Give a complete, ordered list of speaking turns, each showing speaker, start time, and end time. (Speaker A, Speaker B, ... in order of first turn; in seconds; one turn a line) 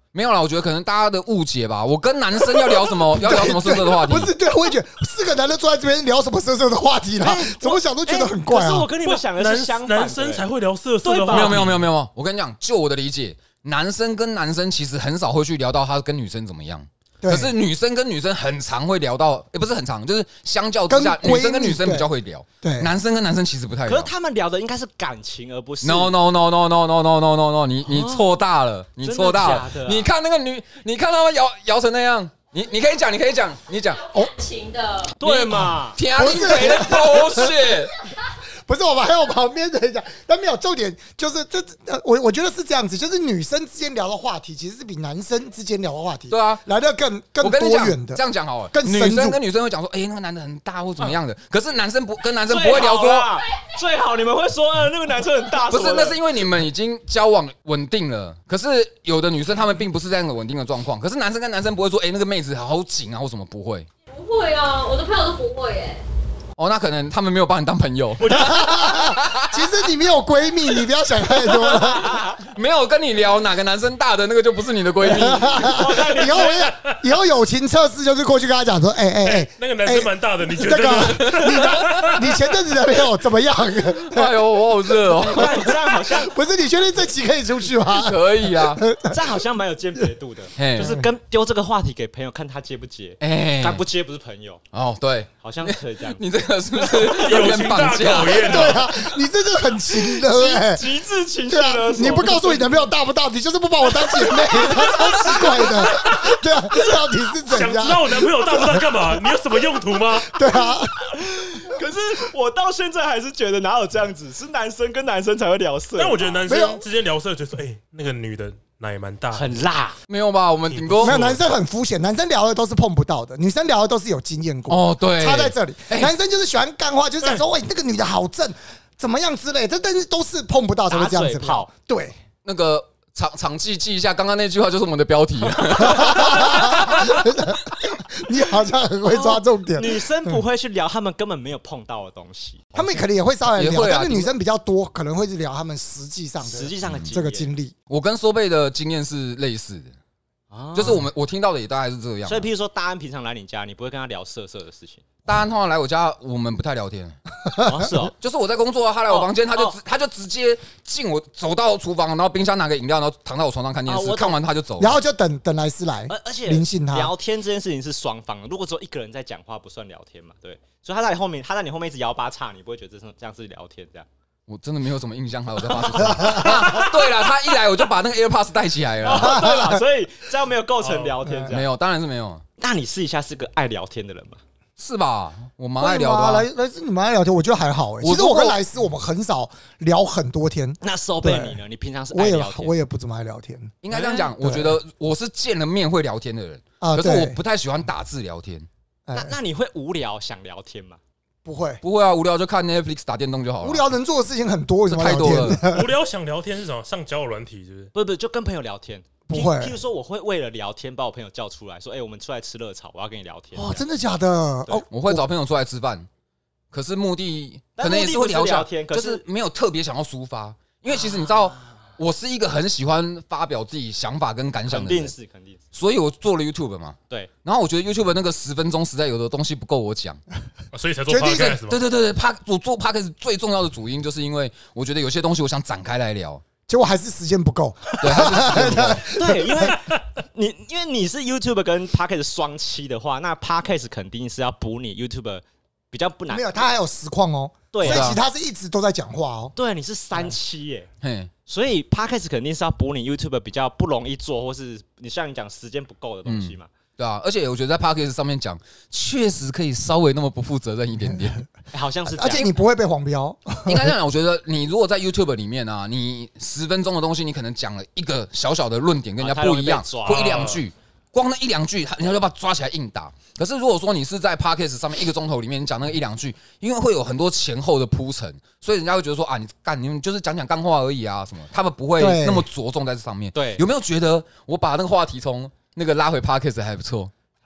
Speaker A: 0.1-4.3
Speaker B: 3.0-8.9
Speaker C: 7.2-10.4
Speaker D: 9.0-11.9
Speaker C: 11.0-11.6
Speaker A: 11.3-24.1
Speaker B: 17.2-17.5
Speaker B: 20.9-22.1
Speaker B: 22.6-22.9
Speaker C: 23.9-26.1
Speaker A: 25.8-34.0
Speaker C: 27.8-28.4
Speaker C: 29.0-30.1
Speaker E: 34.1-35.1
Speaker C: 35.2-36.0
Speaker A: 35.2-37.9
Speaker B: 36.1-37.7
Speaker B: 38.6-49.4
Speaker A: 46.3-46.6
Speaker A: 47.4-53.3
Speaker C: 52.5-56.2
Speaker A: 55.7-63.9
Speaker E: 64.1-66.0
Speaker A: 66.6-69.8
Speaker D: 68.2-68.6
Speaker B: 68.3-72.2
Speaker C: 71.7-72.4
Speaker A: 72.4-75.8
Speaker B: 75.0-84.3
Speaker C: 75.7-76.6
Speaker D: 75.8-76.9
Speaker D: 79.2-82.6
Speaker A: 81.1-81.5
Speaker A: 83.7-85.7
Speaker C: 85.2-86.3
Speaker B: 85.4-89.2
Speaker A: 87.9-88.8
Speaker C: 89.0-94.6
Speaker A: 90.6-91.0
Speaker B: 90.8-91.0
Speaker A: 93.2-93.8
Speaker A: 94.7-98.9
Speaker C: 95.4-96.2
Speaker D: 97.1-98.8
Speaker B: 98.4-100.8
Speaker C: 99.9-102.9
Speaker B: 101.5-109.0
Speaker C: 104.2-105.8
Speaker D: 105.9-106.2
Speaker D: 107.4-110.4
Speaker B: 110.2-111.1
Speaker C: 111.0-116.4
Speaker D: 116.0-119.5
Speaker B: 116.5-116.8
Speaker C: 119.3-120.0
Speaker A: 120.1-121.3
Speaker D: 120.7-121.4
Speaker B: 121.0-132.2
Speaker A: 124.7-126.1
Speaker C: 130.9-131.7
Speaker A: 132.4-137.2
Speaker B: 135.7-140.4
Speaker C: 139.1-143.0
Speaker B: 142.7-147.7
Speaker A: 143.5-144.3
Speaker C: 146.4-147.5
Speaker A: 147.9-149.9
Speaker C: 150.5-151.1
Speaker A: 150.7-152.5
Speaker C: 152.2-155.0
Speaker A: 155.2-157.2
Speaker B: 157.6-157.9
Speaker C: 157.6-158.1
Speaker A: 158.1-165.0
Speaker C: 159.1-159.8
Speaker C: 163.8-164.4
Speaker B: 164.8-167.1
Speaker C: 166.1-174.1
Speaker A: 174.5-179.5
Speaker C: 175.8-177.1
Speaker B: 176.2-176.6
Speaker C: 179.0-181.7
Speaker B: 179.1-179.8
Speaker D: 180.8-181.2
Speaker B: 181.2-181.5
Speaker A: 181.5-182.4
Speaker C: 182.6-184.4
Speaker A: 184.8-186.5
Speaker B: 185.8-191.6
Speaker A: 188.0-188.6
Speaker C: 190.8-192.7
Speaker B: 192.1-193.7
Speaker A: 193.8-198.7
Speaker C: 193.9-194.2
Speaker B: 194.2-194.8
Speaker B: 196.8-197.4
Speaker B: 199.1-199.3
Speaker C: 199.1-201.0
Speaker B: 201.4-201.8
Speaker A: 201.8-203.9
Speaker B: 203.6-205.9
Speaker A: 204.9-205.6
Speaker D: 205.6-207.9
Speaker C: 207.9-213.8
Speaker B: 209.3-209.8
Speaker B: 213.6-215.2
Speaker A: 214.9-216.1
Speaker A: 216.7-225.1
Speaker C: 217.8-219.2
Speaker C: 221.0-221.3
Speaker C: 224.7-225.6
Speaker A: 225.7-230.2
Speaker D: 230.7-231.8
Speaker B: 231.1-231.6
Speaker A: 231.6-236.4
Speaker B: 236.7-239.7
Speaker A: 238.0-239.1
Speaker C: 239.0-246.6
Speaker B: 246.3-249.5
Speaker C: 247.7-248.2
Speaker A: 247.8-248.2
Speaker C: 249.6-250.9
Speaker A: 251.0-251.3
Speaker C: 251.5-256.7
Speaker A: 256.2-261.4
Speaker C: 261.7-262.5
Speaker B: 262.1-263.9
Speaker A: 263.6-287.1
Speaker C: 269.2-270.6
Speaker D: 270.1-270.6
Speaker B: 282.0-282.5
Speaker C: 283.3-283.6